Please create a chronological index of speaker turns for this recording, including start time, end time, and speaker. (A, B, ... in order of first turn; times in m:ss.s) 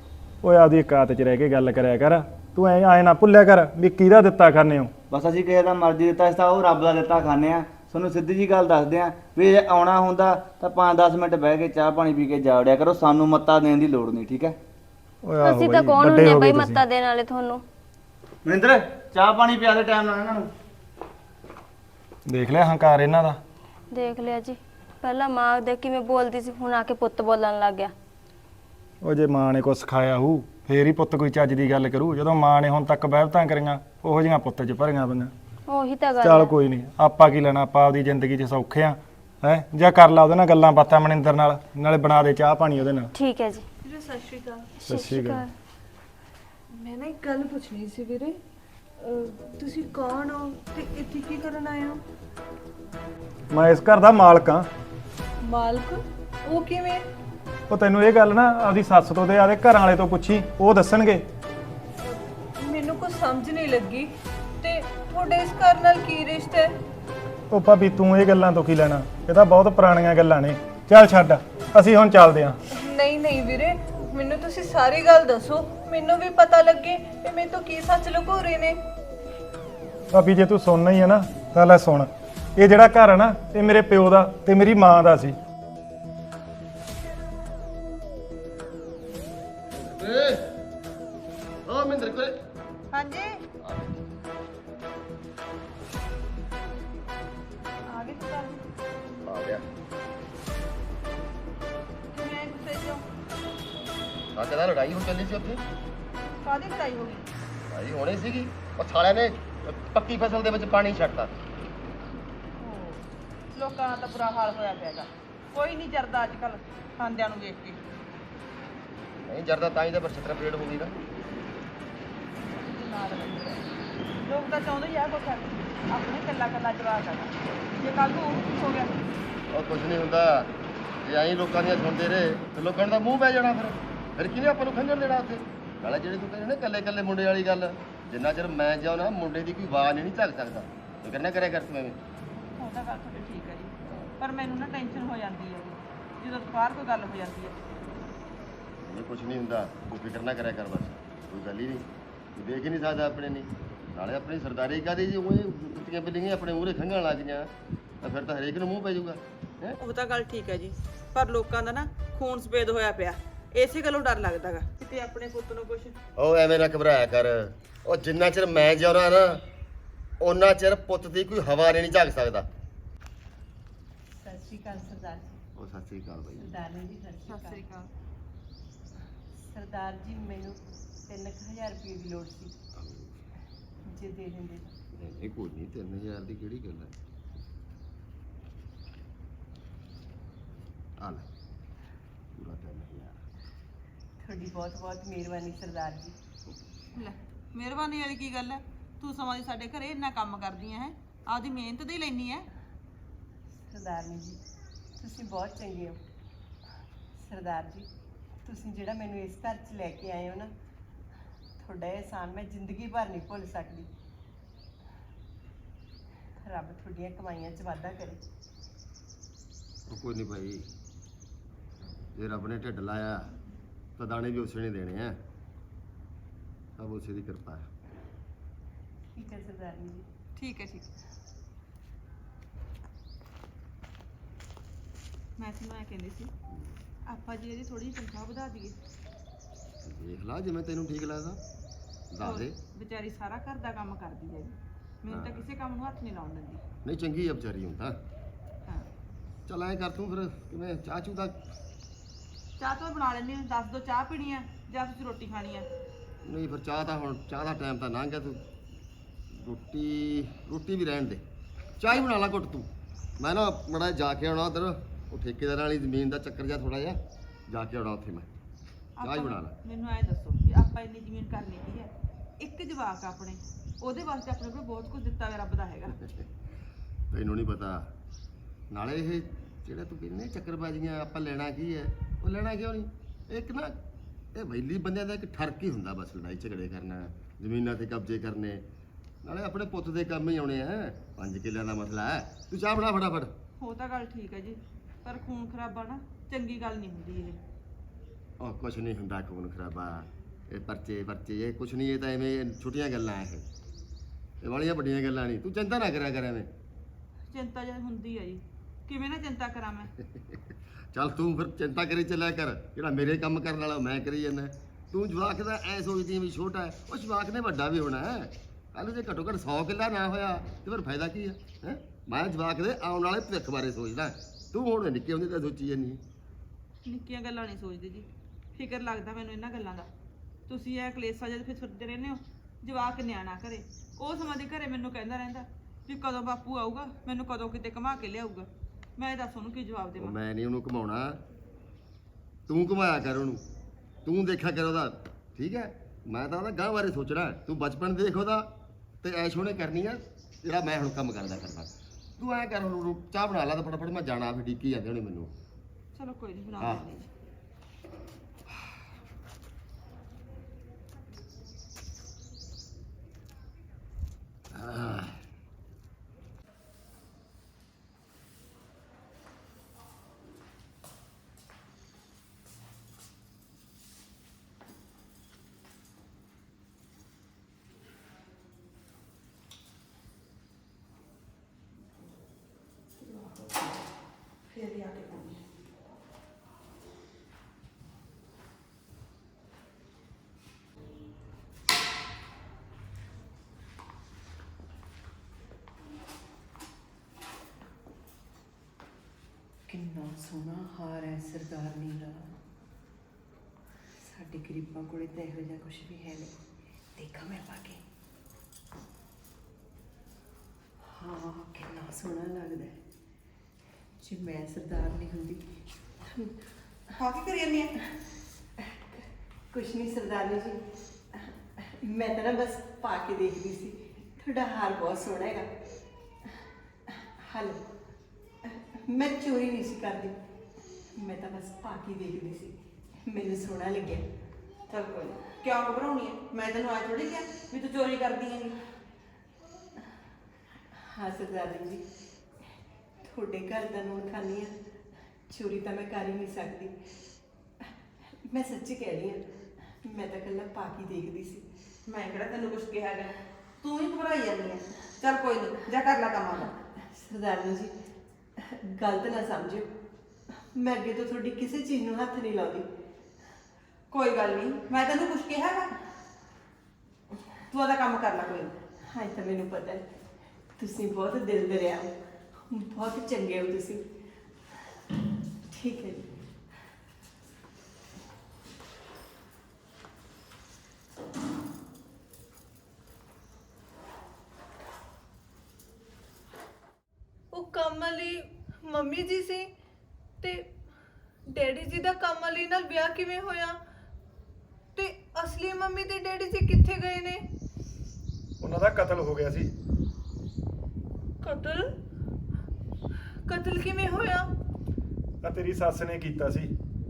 0:00.4-0:04.9 A
0:05.1-0:14.6 B
0:15.2-0:16.8 A
0:15.4-0:17.6 C
0:18.4-0:20.5 B
0:22.3-0:23.4 A
0:23.9-0:27.9 C
0:29.0-0:35.3 A
0:35.7-0:36.5 C
0:36.2-0:43.1 A
0:43.2-0:43.6 C
0:43.8-0:44.7 D
0:44.8-0:45.5 C
0:44.9-0:45.4 A
0:46.7-0:48.4 D
0:49.0-0:52.0 D
0:53.5-0:54.7 A
0:55.4-0:57.1 D
0:57.7-1:01.2 A
1:02.0-1:06.7 D
1:07.5-1:12.6 A
1:12.7-1:18.8 D
1:20.1-1:25.4 A
1:29.8-1:30.4 E
1:31.7-1:32.3 E
1:32.9-1:33.4 F
1:33.6-1:34.0 E
1:37.9-1:38.6 F
1:39.2-1:39.6 E
1:42.1-1:43.0 F
1:44.3-1:45.6 E
1:46.4-1:47.2 F
1:47.7-1:51.3 E
1:52.6-1:53.0 F
1:53.5-1:57.8 F
1:59.3-2:00.9 E
2:02.6-2:03.6 F
2:04.2-2:09.0 F
2:09.5-2:10.5 E
2:11.0-2:22.0 E
2:22.6-2:27.6 F
2:28.8-2:37.5 E
2:38.0-2:39.8 E
2:39.8-2:46.0 F
2:46.2-2:49.4 E
2:50.2-2:52.5 E
2:54.2-2:55.4 G
2:55.6-2:56.5 E
2:56.3-2:57.6 G
2:57.3-2:57.9 F
2:59.5-3:02.5 G
3:02.7-3:03.2 E
3:03.9-3:04.7 G
3:04.9-3:06.9 E
3:11.0-3:11.2 E
3:12.3-3:13.2 E
3:14.2-3:16.1 G
3:17.0-3:22.4 F
3:23.7-3:24.4 G
3:25.0-3:26.0 G
3:27.2-3:27.9 G
3:28.4-3:30.5 G
3:31.6-3:33.9 G
3:36.4-3:38.2 G
3:39.9-3:40.6 E
3:42.2-3:43.3 E
3:44.0-3:45.2 E
3:46.8-3:47.6 E
3:49.1-3:50.0 G
3:50.4-3:50.9 F
3:55.4-3:56.3 F
3:56.5-3:56.8 E
3:57.0-3:58.8 F
3:59.8-4:01.4 E
4:02.1-4:02.5 E
4:02.2-4:06.6 F
4:05.1-4:05.5 E
4:06.8-4:08.0 E
4:09.5-4:11.4 E
4:12.6-4:15.7 F
4:16.2-4:18.4 E
4:19.4-4:21.2 E
4:21.8-4:27.0 E
4:27.5-4:28.3 E
4:29.0-4:36.0 F
4:29.0-4:29.5 E
4:37.1-4:37.9 E
4:38.7-4:43.7 E
4:44.3-4:48.6 E
4:49.2-4:53.3 E
4:53.6-4:57.4 F
4:58.4-5:03.4 E
5:04.4-5:06.5 E
5:07.3-5:09.9 F
5:10.9-5:26.0 E
5:26.8-5:29.9 F
5:30.5-5:40.2 F
5:40.0-5:41.2 E
5:42.5-5:43.4 E
5:44.0-5:48.5 E
5:49.0-5:55.3 E
5:55.9-5:57.1 F
5:56.6-5:56.9 E
6:04.5-6:05.1 E
6:23.0-6:23.8 F
6:24.5-6:25.4 F
6:39.7-6:42.3 G
6:44.0-6:46.3 G
6:47.0-6:47.8 G
6:50.9-6:52.8 G
6:54.0-6:55.4 G
6:57.0-6:57.7 F
6:59.5-7:00.6 G
7:01.8-7:05.4 G
7:07.3-7:07.6 G
7:08.8-7:10.1 G
7:11.0-7:12.5 G
7:13.0-7:14.0 G
7:14.7-7:18.6 F
7:20.9-7:21.8 G
7:23.0-7:24.5 G
7:25.3-7:26.7 G
7:28.3-7:29.2 G
7:29.8-7:31.4 G
7:31.9-7:36.5 F
7:36.9-7:37.7 G
7:38.4-7:39.7 G
7:40.5-7:42.6 G
7:43.9-7:45.7 F
7:47.5-7:48.5 F
7:48.9-7:49.9 G
7:50.6-7:51.9 G
7:52.5-7:53.8 G
7:55.5-7:56.1 G
8:07.3-8:09.5 D
8:10.2-8:10.5 D
8:11.3-8:13.6 D
8:14.7-8:17.2 D
8:18.4-8:19.5 A
8:21.2-8:21.7 D
8:23.2-8:24.3 D
8:25.2-8:26.5 A